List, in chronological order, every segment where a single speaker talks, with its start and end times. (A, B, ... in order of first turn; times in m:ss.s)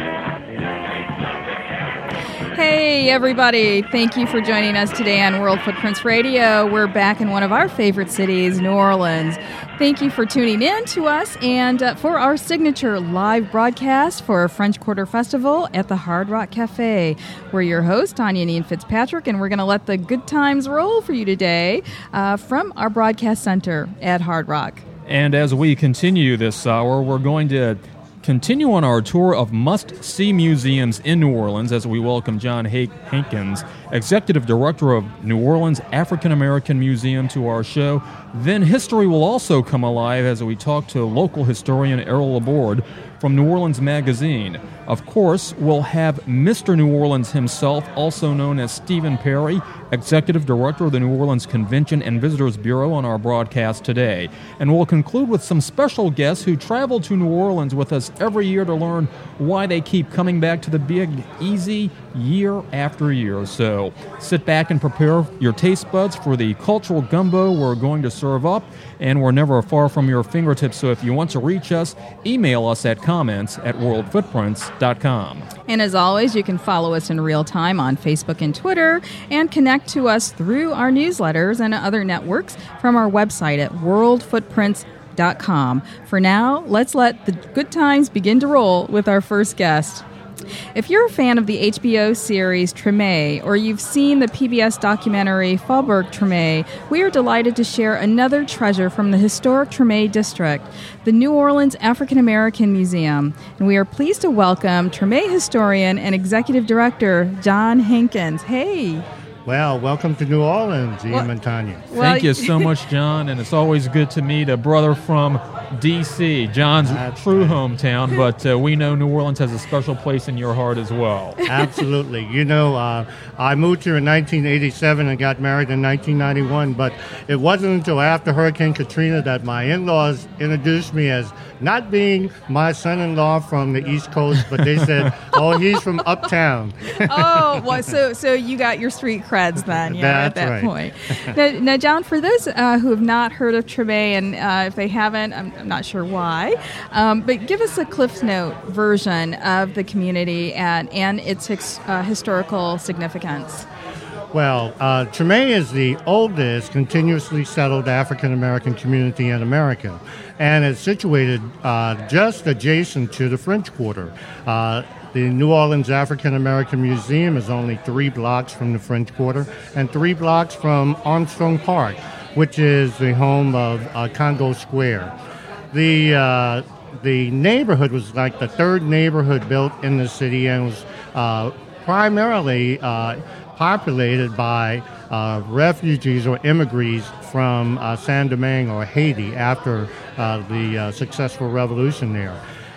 0:02.5-0:24.8 A
0:25.0-1:15.5 B
1:15.7-1:30.0 A
1:30.7-1:49.0 A
1:49.4-1:51.8 C
1:51.9-1:52.7 A
1:51.9-2:01.4 B
1:56.8-1:57.6 C
2:01.4-2:17.6 C
2:16.9-2:33.6 A
2:19.8-2:20.7 C
2:34.3-2:55.1 C
2:55.7-3:12.4 C